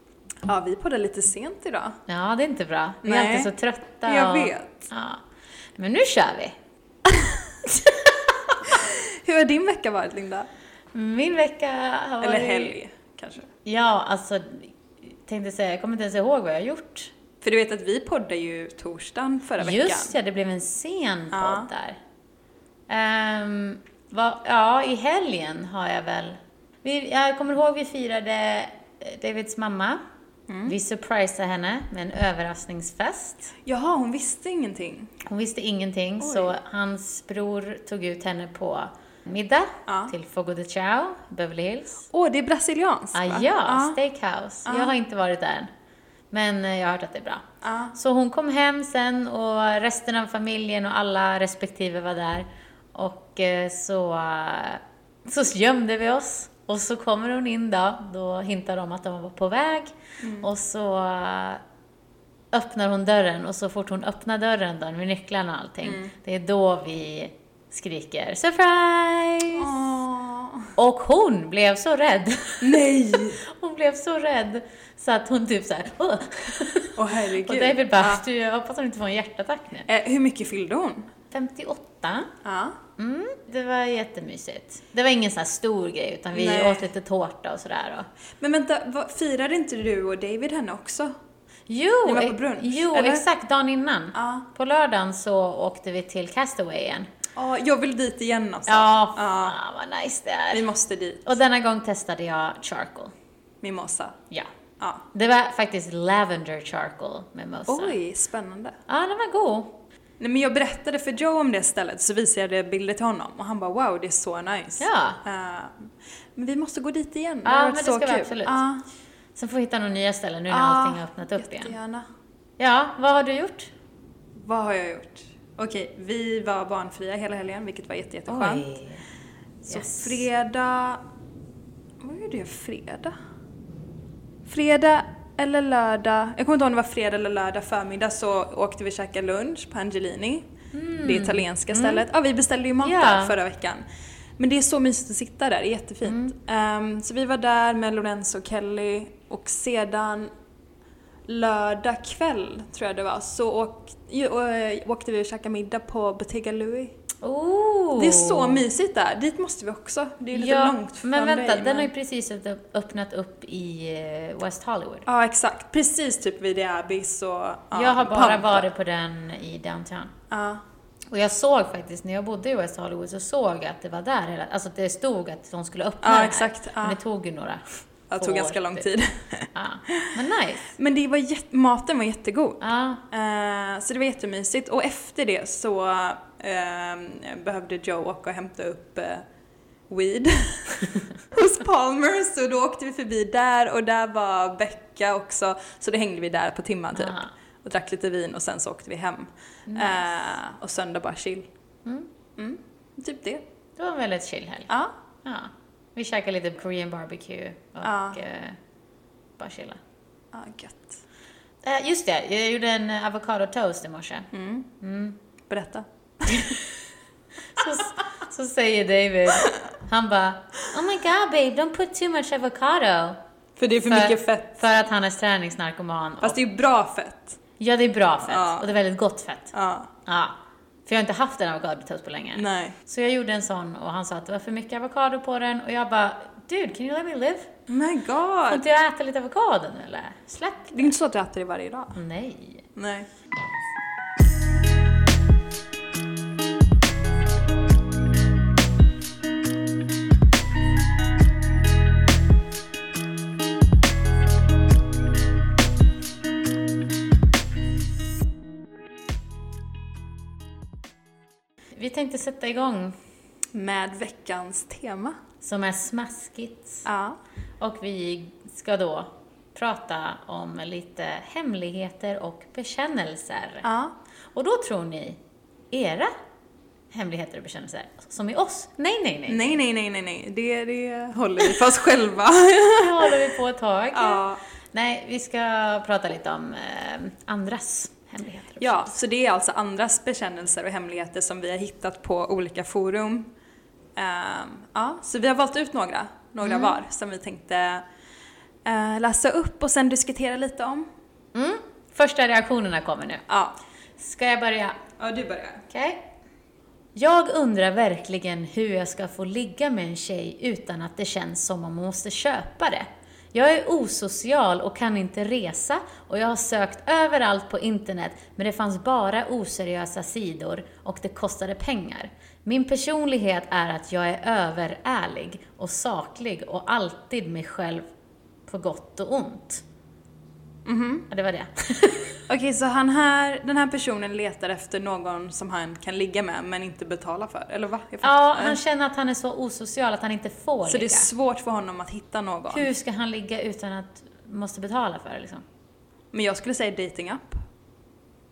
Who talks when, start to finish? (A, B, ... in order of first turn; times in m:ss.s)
0:00.4-0:02.0 A
0:02.1-0:05.2 B
0:03.0-0:03.5 A
0:04.0-0:04.8 A
0:05.8-0:06.6 B
0:07.0-0:07.4 A
0:08.6-0:10.5 A
0:10.9-0:12.8 B
0:12.2-0:13.5 A
0:13.6-0:17.1 B
0:17.4-0:20.1 A
0:19.6-0:22.0 B
0:21.3-0:21.7 A
0:22.9-0:30.0 B
0:30.5-0:30.7 A
0:30.6-0:33.5 B
0:33.6-0:35.1 A
0:35.2-0:42.1 B
0:36.2-0:36.5 A
0:39.9-0:40.1 A
0:42.1-0:44.0 A
0:43.1-0:45.7 B
0:44.6-0:44.9 A
0:46.3-1:01.6 B
0:47.6-0:47.9 A
1:00.2-1:00.5 A
1:02.5-1:09.9 B
1:05.8-1:06.1 A
1:09.6-1:10.7 A
1:10.8-1:12.8 B
1:12.6-1:13.4 A
1:13.4-1:19.9 B
1:16.9-1:18.2 A
1:19.9-1:21.1 A
1:21.3-1:22.3 B
1:22.4-1:22.8 A
1:23.0-1:28.1 B
1:26.3-1:26.9 A
1:28.4-1:31.1 A
1:31.7-1:37.1 B
1:32.0-1:33.2 A
1:34.1-1:34.4 A
1:37.3-1:39.6 A
1:38.7-1:40.7 B
1:40.5-1:41.3 A
1:41.2-1:43.1 B
1:43.6-1:44.2 A
1:44.8-1:45.0 A
1:45.1-1:48.0 B
1:47.7-1:48.8 A
1:48.9-1:49.8 B
1:50.2-1:58.8 A
1:54.8-1:55.2 B
1:57.4-1:58.6 B
1:59.4-2:01.7 B
2:00.5-2:02.0 A
2:02.6-2:03.7 B
2:04.4-2:08.7 A
2:08.3-2:09.0 B
2:09.6-2:10.2 B
2:09.7-2:11.0 A
2:12.0-2:13.1 A
2:14.4-2:20.5 A
2:20.7-2:22.0 B
2:21.0-2:23.8 A
2:22.8-2:23.4 B
2:24.4-2:30.3 A
2:26.0-2:26.3 B
2:31.3-2:37.0 A
2:37.2-2:38.6 B
2:38.0-2:41.9 A
2:40.3-2:45.0 B
2:45.0-2:48.6 A
2:47.7-2:50.1 B
2:50.3-2:50.6 A
2:51.1-2:57.6 B
2:56.0-2:57.0 A
2:58.1-3:00.1 A
2:58.2-2:58.8 B
2:59.5-3:00.7 B
3:00.7-3:09.2 A
3:02.6-3:03.0 B
3:09.9-3:21.5 A
3:17.0-3:17.3 B
3:19.7-3:20.2 B
3:22.4-3:23.4 A
3:23.8-3:24.7 B
3:25.2-3:28.6 B
3:27.8-3:28.2 A
3:29.4-3:29.8 B
3:30.3-3:31.0 A
3:31.6-3:34.3 B
3:34.3-3:34.7 A
3:34.8-3:35.2 B
3:35.5-3:36.6 A
3:36.3-3:36.6 B
3:37.5-3:43.2 B
3:43.6-3:44.6 A
3:43.8-3:46.4 B
3:46.2-3:47.4 A
3:47.6-3:49.5 B
3:48.3-3:48.7 A
3:49.5-3:49.9 A
3:50.0-3:57.5 B
3:52.4-3:52.8 A
3:57.7-3:58.6 A
3:58.5-4:00.9 B
4:00.7-4:02.0 A
4:01.9-4:02.7 B
4:02.8-4:03.1 A
4:21.7-4:23.0 B
4:23.5-4:25.2 A
4:25.4-4:26.8 B
4:26.8-4:27.2 A
4:27.6-4:33.6 B
4:33.6-4:33.9 A
4:34.3-4:35.2 B
4:35.7-4:36.1 B
4:36.9-4:39.6 B
4:39.3-4:43.3 A
4:42.8-4:48.9 B
4:43.9-4:44.4 A
4:48.6-4:53.3 A
4:54.0-4:57.8 A
4:56.4-4:56.8 B
4:58.6-5:00.9 A
5:01.3-5:03.2 B
5:03.3-5:03.6 A
5:04.0-5:04.8 B
5:05.0-5:05.6 A
5:05.7-5:06.1 B
5:06.9-5:27.8 B
5:28.5-5:29.6 B
5:30.6-5:31.1 A
5:31.1-5:32.2 B
5:32.3-5:38.6 A
5:38.0-5:41.1 B
5:40.6-5:42.7 A
5:42.5-5:45.4 B
5:46.1-5:47.4 A